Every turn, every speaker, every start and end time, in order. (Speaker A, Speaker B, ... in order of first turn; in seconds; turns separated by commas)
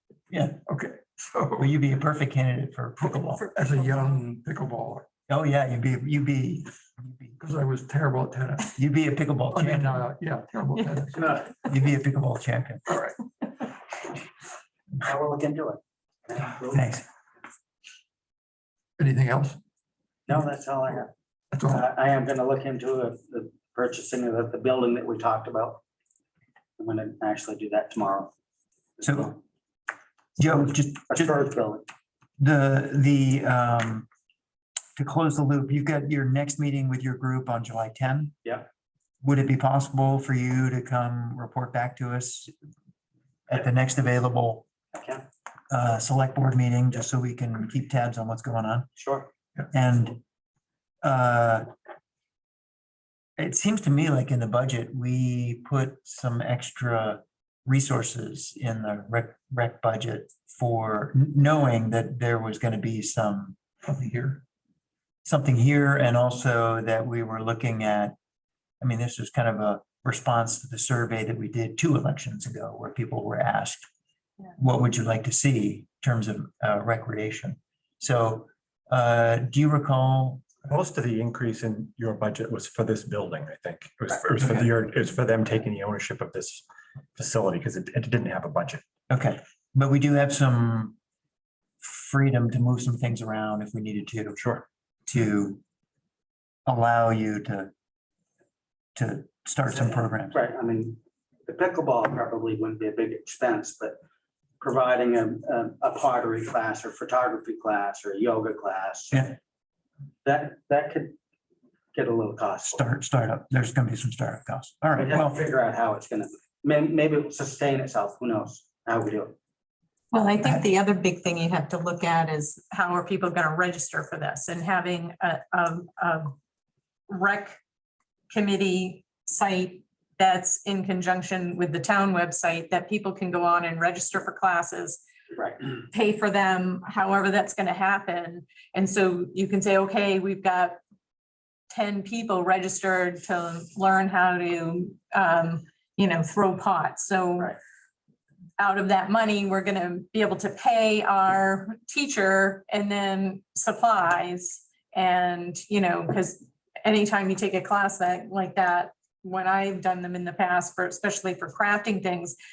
Speaker A: 0.3-0.6, Speaker B: 0.7-1.7, Speaker A: 1.6-3.5, Speaker B: 3.0-5.1, Speaker C: 3.4-4.2, Speaker A: 5.3-7.4, Speaker B: 7.4-8.8, Speaker A: 8.8-10.0, Speaker B: 9.5-11.4, Speaker A: 11.6-12.8, Speaker B: 12.9-13.2, Speaker D: 15.0-16.8, Speaker A: 16.7-17.1, Speaker B: 19.0-19.6, Speaker D: 20.3-21.1, Speaker B: 21.5-21.9, Speaker D: 21.7-25.8, Speaker D: 26.8-28.3, Speaker D: 29.0-29.4, Speaker A: 29.0-29.3, Speaker A: 30.4-31.4, Speaker D: 31.1-31.9, Speaker A: 32.4-34.1, Speaker A: 35.0-38.4, Speaker A: 39.2-42.5, Speaker A: 43.5-44.7, Speaker D: 44.9-45.3, Speaker A: 45.7-48.9, Speaker D: 49.0-49.3, Speaker A: 49.7-50.2, Speaker A: 51.0-51.7, Speaker A: 53.4-63.6, Speaker B: 63.9-64.4, Speaker A: 65.2-68.2, Speaker A: 68.8-73.9, Speaker A: 74.6-80.5, Speaker E: 80.7-86.7, Speaker E: 87.2-88.8, Speaker A: 89.1-91.0, Speaker A: 91.8-94.5, Speaker E: 94.4-94.6, Speaker A: 95.1-95.6, Speaker A: 96.7-97.7, Speaker A: 99.0-100.4, Speaker D: 99.7-104.0, Speaker D: 104.6-109.4, Speaker D: 110.2-111.2, Speaker D: 111.9-112.8, Speaker A: 112.7-115.4, Speaker D: 115.0-119.3, Speaker C: 120.1-126.3, Speaker C: 127.1-127.6, Speaker C: 128.3-135.0, Speaker D: 135.3-135.7, Speaker C: 135.9-140.8, Speaker C: 141.7-147.5, Speaker C: 148.6-162.4